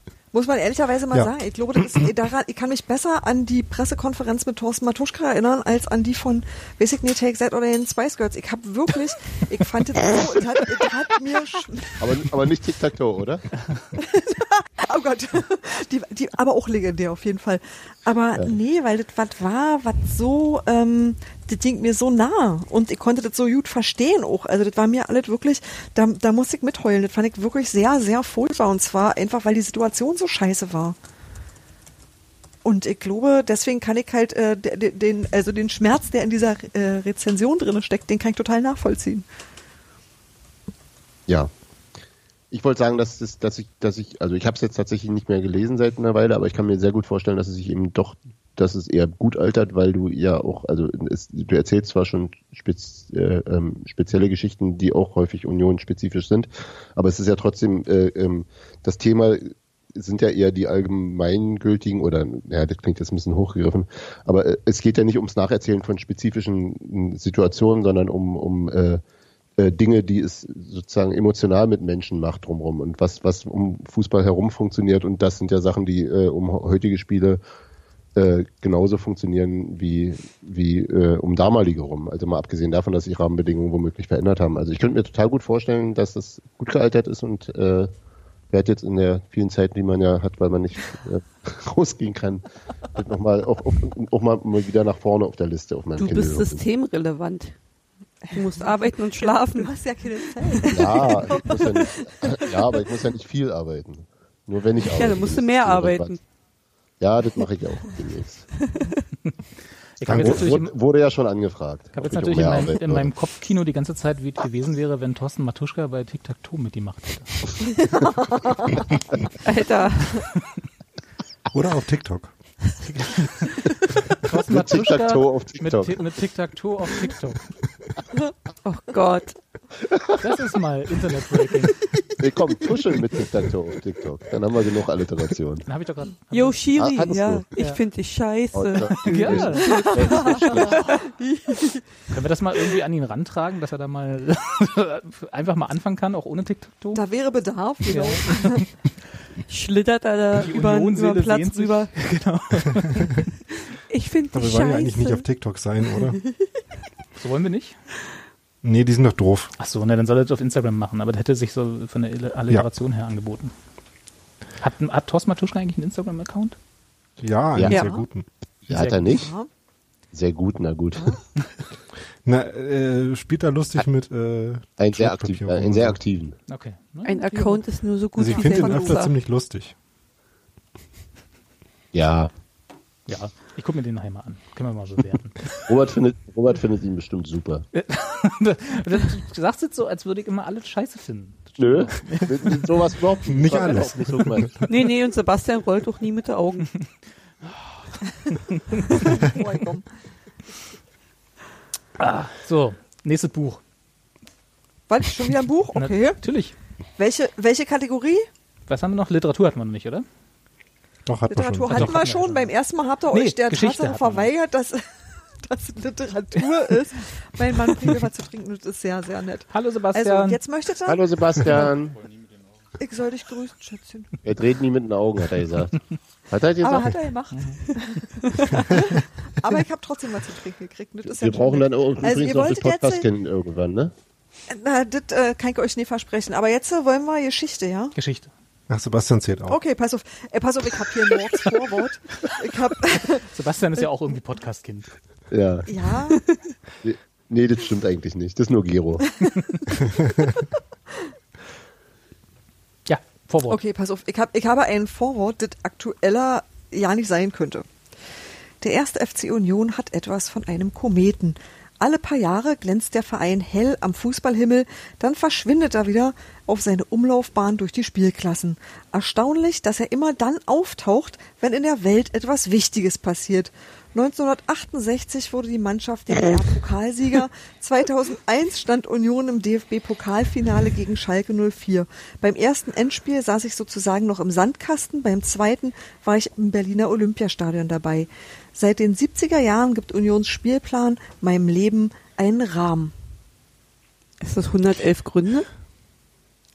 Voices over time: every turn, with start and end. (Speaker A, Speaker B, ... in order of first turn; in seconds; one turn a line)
Speaker A: 0.3-12.0
Speaker B: 12.0-13.4
Speaker A: 14.0-31.0
Speaker A: 32.6-39.2
Speaker B: 42.5-69.0
Speaker B: 69.6-77.4
Speaker B: 78.2-87.9
Speaker B: 88.5-92.4
Speaker B: 93.0-96.6
Speaker C: 96.0-97.5
Speaker A: 98.2-102.4
Speaker C: 98.3-99.7
Speaker C: 100.4-101.0
Speaker B: 100.7-106.1
Speaker C: 104.8-106.2
Speaker B: 107.0-108.5
Speaker C: 108.6-109.0
Speaker D: 110.0-110.7
Speaker E: 110.0-110.5
Speaker B: 110.1-113.1
Speaker D: 111.9-117.5
Speaker A: 117.8-118.8
Speaker C: 119.4-120.3
Speaker E: 121.5-122.3
Speaker D: 122.8-127.4
Speaker B: 124.5-126.0
Speaker C: 128.6-129.4
Speaker B: 129.8-130.2
Speaker D: 130.2-131.8
Speaker B: 132.2-135.6
Speaker D: 135.7-136.8
Speaker C: 136.3-140.9
Speaker B: 136.8-137.4
Speaker B: 138.5-140.8
Speaker D: 139.1-140.7
Speaker A: 139.6-141.8
Speaker D: 142.1-147.0
Speaker A: 146.9-148.7
Speaker D: 147.9-148.7
Speaker C: 149.5-151.9
Speaker D: 150.3-153.3
Speaker C: 153.9-155.3
Speaker E: 154.3-156.2
Speaker D: 157.2-157.8
Speaker E: 158.6-159.5
Speaker D: 159.6-163.5
Speaker D: 164.6-166.6
Speaker E: 167.2-168.3
Speaker B: 167.6-167.8
Speaker C: 167.7-168.0
Speaker B: 168.7-169.3
Speaker D: 168.7-169.3
Speaker A: 169.0-169.5
Speaker B: 170.1-171.2
Speaker E: 172.2-176.0
Speaker B: 174.8-176.4
Speaker D: 176.5-177.2
Speaker C: 177.1-179.1
Speaker A: 177.3-177.6
Speaker E: 178.2-179.7
Speaker A: 178.3-179.0
Speaker B: 181.9-182.3
Speaker D: 183.1-185.7
Speaker B: 185.7-187.6
Speaker D: 187.7-192.7
Speaker B: 191.6-194.6
Speaker E: 193.2-194.5
Speaker D: 193.4-193.9
Speaker C: 194.7-196.7
Speaker D: 197.4-199.1
Speaker A: 198.9-199.9
Speaker D: 202.0-203.6
Speaker A: 204.9-206.2
Speaker D: 205.7-206.6
Speaker A: 207.0-208.3
Speaker D: 208.7-210.1
Speaker E: 211.1-212.0
Speaker A: 211.3-214.8
Speaker D: 211.7-212.5
Speaker D: 213.1-214.3
Speaker A: 215.4-221.7
Speaker D: 219.5-220.4
Speaker B: 220.9-222.0
Speaker A: 222.8-224.2
Speaker B: 224.2-225.8
Speaker B: 226.3-226.9
Speaker A: 226.6-233.1
Speaker D: 227.3-227.6
Speaker B: 231.1-233.9
Speaker A: 234.5-237.9
Speaker D: 237.9-238.3
Speaker E: 238.7-239.6
Speaker A: 239.5-243.3
Speaker D: 243.3-244.9
Speaker B: 245.3-245.7
Speaker A: 245.7-246.2
Speaker B: 246.8-249.0
Speaker A: 249.7-250.4
Speaker D: 252.9-253.6
Speaker A: 253.5-257.7
Speaker A: 258.6-292.9
Speaker C: 294.2-295.5